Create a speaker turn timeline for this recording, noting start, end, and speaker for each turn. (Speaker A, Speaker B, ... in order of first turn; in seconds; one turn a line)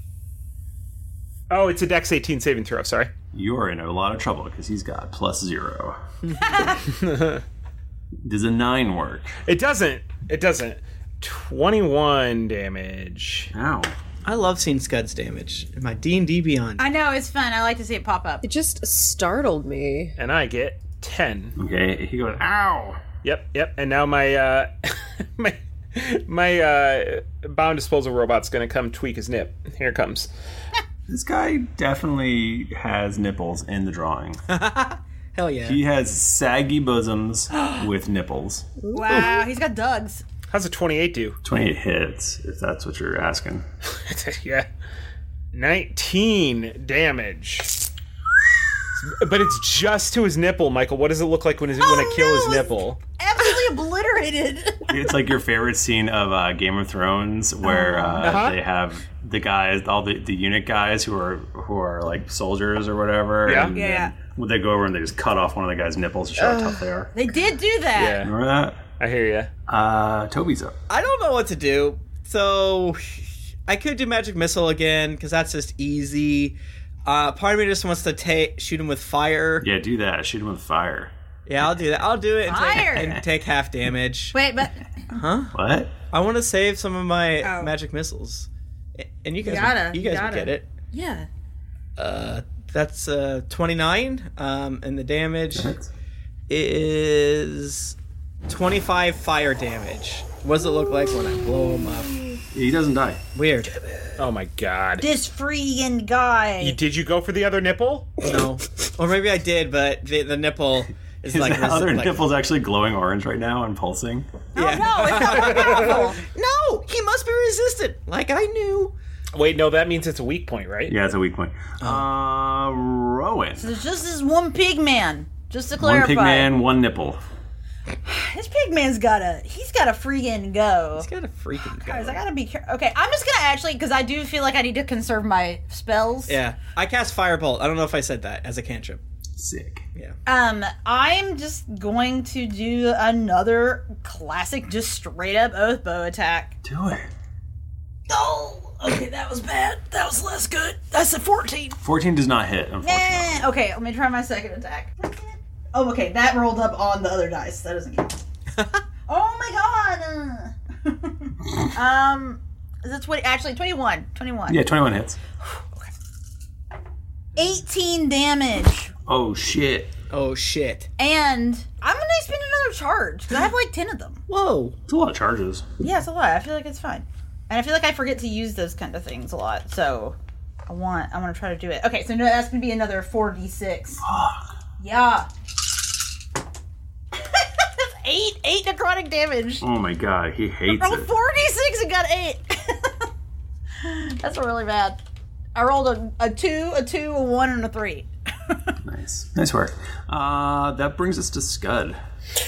Speaker A: 1.5-3.1
Speaker B: 3.3-6.0
Speaker C: 6.4-6.8
Speaker A: 6.9-7.4
Speaker B: 8.2-9.4
Speaker A: 9.5-13.5
Speaker B: 13.5-13.9
Speaker D: 14.2-16.8
Speaker C: 16.8-18.4
Speaker E: 18.4-20.1
Speaker A: 20.2-21.6
Speaker B: 21.6-23.0
Speaker A: 23.2-30.3
Speaker B: 31.1-34.4
Speaker D: 34.5-35.8
Speaker B: 35.6-38.7
Speaker E: 38.8-39.4
Speaker C: 38.9-40.2
Speaker A: 40.5-41.4
Speaker B: 41.4-43.6
Speaker A: 44.0-44.7
Speaker A: 45.5-47.8
Speaker A: 49.0-53.0
Speaker C: 51.8-54.9
Speaker B: 54.9-67.1
Speaker E: 57.7-58.2
Speaker C: 57.7-58.1
Speaker A: 58.2-58.6
Speaker A: 63.5-63.7
Speaker C: 63.7-64.1
Speaker E: 66.4-67.0
Speaker C: 67.2-68.3
Speaker A: 67.9-68.3
Speaker B: 68.2-68.8
Speaker A: 69.0-69.5
Speaker B: 69.7-70.8
Speaker D: 70.9-79.7
Speaker B: 79.6-81.1
Speaker D: 81.5-84.4
Speaker C: 82.5-83.2
Speaker C: 84.3-85.2
Speaker D: 85.1-85.5
Speaker B: 85.5-85.9
Speaker D: 86.1-90.7
Speaker C: 87.4-87.7
Speaker C: 89.4-91.3
Speaker D: 92.0-95.7
Speaker B: 95.6-95.9
Speaker D: 96.5-102.4
Speaker B: 102.5-103.2
Speaker D: 103.3-103.8
Speaker A: 104.2-105.1
Speaker C: 105.0-106.8
Speaker A: 106.6-108.2
Speaker D: 108.2-112.3
Speaker B: 111.3-114.3
Speaker C: 114.5-116.2
Speaker D: 114.6-119.0
Speaker A: 115.4-115.9
Speaker A: 119.3-121.0
Speaker B: 120.9-123.8
Speaker C: 123.6-126.5
Speaker B: 125.8-127.2
Speaker C: 128.1-131.1
Speaker D: 131.0-132.2
Speaker C: 131.8-136.4
Speaker D: 136.3-139.0
Speaker B: 139.4-139.8
Speaker C: 140.3-146.6
Speaker B: 146.6-147.1
Speaker C: 148.1-151.8
Speaker B: 151.8-153.5
Speaker C: 152.8-158.2
Speaker C: 159.1-164.6
Speaker B: 164.5-165.2
Speaker C: 167.4-168.9
Speaker B: 169.1-169.9
Speaker D: 170.1-170.9
Speaker C: 171.0-174.2
Speaker D: 174.3-174.8
Speaker B: 174.9-175.7
Speaker C: 175.8-180.2
Speaker C: 180.7-184.0
Speaker B: 184.0-184.5
Speaker C: 184.8-185.3
Speaker C: 187.2-189.7
Speaker B: 189.6-191.1
Speaker C: 190.7-193.0
Speaker C: 193.8-195.0
Speaker C: 195.6-198.6
Speaker B: 198.8-202.0